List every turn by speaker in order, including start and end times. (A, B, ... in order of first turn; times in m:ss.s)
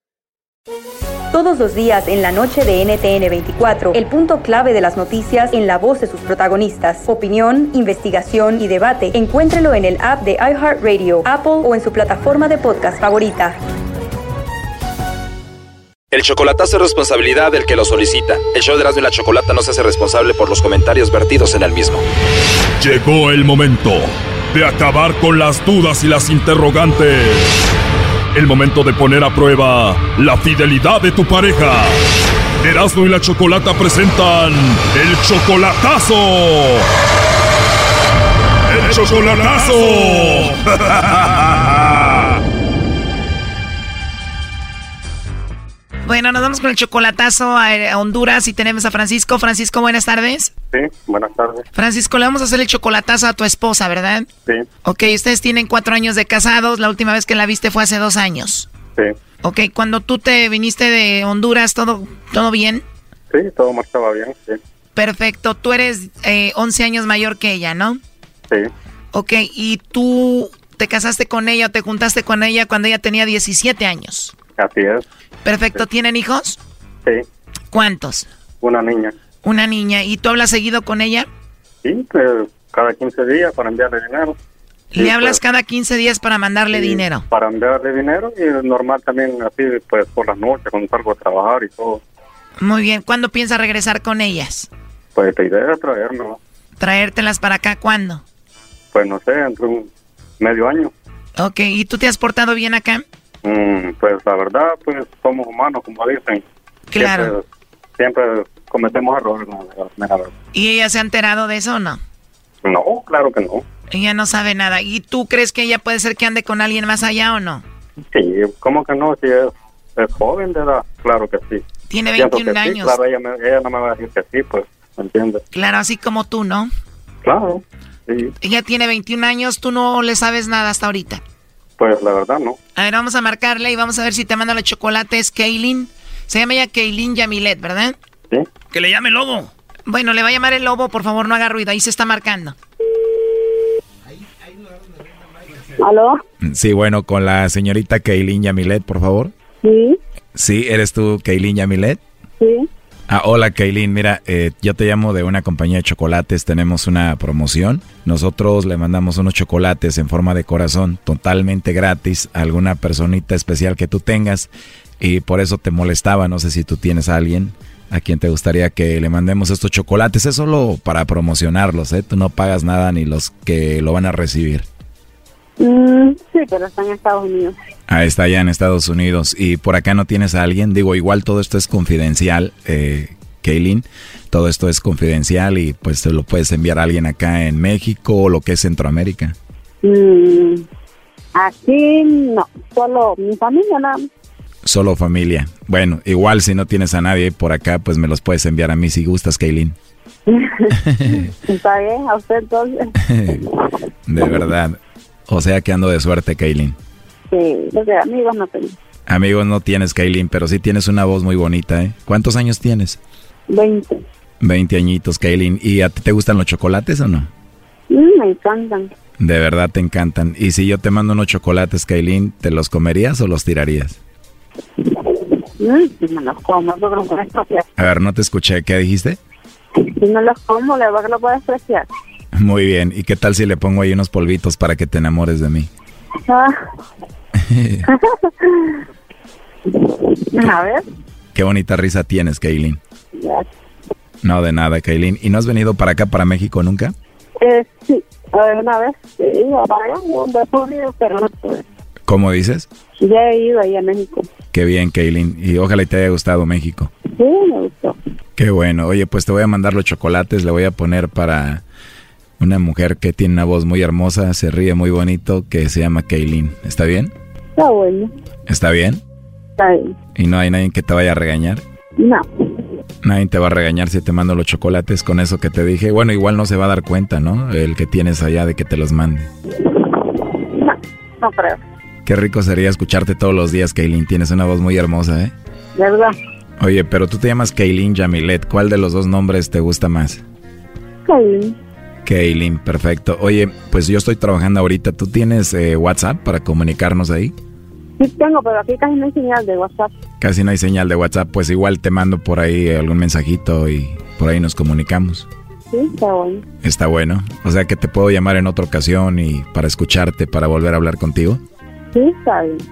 0:01.3-0:13.6 A
0:16.1-0:22.0 B
0:22.8-0:27.7 C
0:28.3-0:32.0 C
0:32.6-0:36.9 C
0:38.7-0:42.3 C
0:46.0-0:50.5 D
0:50.7-0:51.6 E
0:51.8-0:54.3 D
0:54.8-0:58.7 D
0:59.4-1:02.8 D
1:03.3-1:04.6 E
1:05.0-1:08.0 D
1:09.1-1:14.4 D
1:14.6-1:15.0 E
1:15.4-1:16.6 D
1:17.7-1:18.3 D
1:18.6-1:19.1 E
1:19.4-1:21.3 D
1:21.8-1:24.4 E
1:24.9-1:27.3 D
1:25.0-1:25.4 E
1:26.7-1:32.0 E
1:32.6-1:34.7 D
1:35.2-1:36.4 E
1:36.8-1:38.2 D
1:38.9-1:40.9 E
1:41.4-1:43.0 D
1:43.4-1:46.4 E
1:46.9-1:47.3 D
1:47.0-1:47.4 E
1:48.0-1:50.3 E
1:50.5-1:52.0 D
1:52.6-1:53.6 E
1:53.9-1:57.6 D
1:58.1-2:01.6 E
2:01.9-2:03.0 D
2:02.2-2:05.4 E
2:05.5-2:06.7 D
2:07.2-2:08.3 E
2:08.4-2:11.2 D
2:11.8-2:12.6 E
2:12.8-2:18.0 D
2:18.7-2:22.6 D
2:25.8-2:26.2 F
2:26.4-2:29.3 G
2:29.6-2:30.0 F
2:30.4-2:32.0 G
2:32.4-2:32.7 F
2:33.1-2:54.7 G
2:55.6-2:57.6 F
2:57.9-3:09.4 G
3:09.8-3:10.6 F
3:11.4-3:14.0 F
3:14.6-3:19.8 G
3:20.3-3:22.9 F
3:20.9-3:21.3 G
3:23.1-3:23.5 G
3:24.1-3:26.8 G
3:27.3-3:28.8 F
3:29.1-3:33.0 G
3:33.5-3:34.0 F
3:34.4-3:37.3 G
3:37.9-3:38.9 F
3:39.2-3:44.0 G
3:45.6-3:47.7 F
3:47.8-3:49.2 G
3:49.8-3:51.9 F
3:52.3-3:55.7 G
3:56.3-3:56.5 F
3:57.4-3:57.9 G
3:57.9-3:58.8 F
3:59.7-4:00.8 F
4:01.3-4:02.8 G
4:03.2-4:03.4 F
4:04.2-4:07.0 G
4:07.4-4:11.6 F
4:12.1-4:12.7 G
4:13.0-4:14.3 F
4:14.5-4:16.9 G
4:17.2-4:18.0 F
4:18.4-4:21.6 G
4:22.4-4:27.1 G
4:27.6-4:28.1 F
4:28.5-4:29.0 G
4:29.6-4:29.9 F
4:30.2-4:31.6 G
4:32.0-4:32.2 F
4:33.0-4:39.3 G
4:40.1-4:41.6 F
4:42.1-4:45.3 G
4:45.8-4:46.2 F
4:46.6-4:50.2 G
4:51.0-4:51.6 F
4:52.0-4:57.4 G
4:58.0-4:59.9 F
5:00.2-5:05.3 G
5:05.7-5:06.4 F
5:06.6-5:11.4 G
5:11.9-5:12.6 F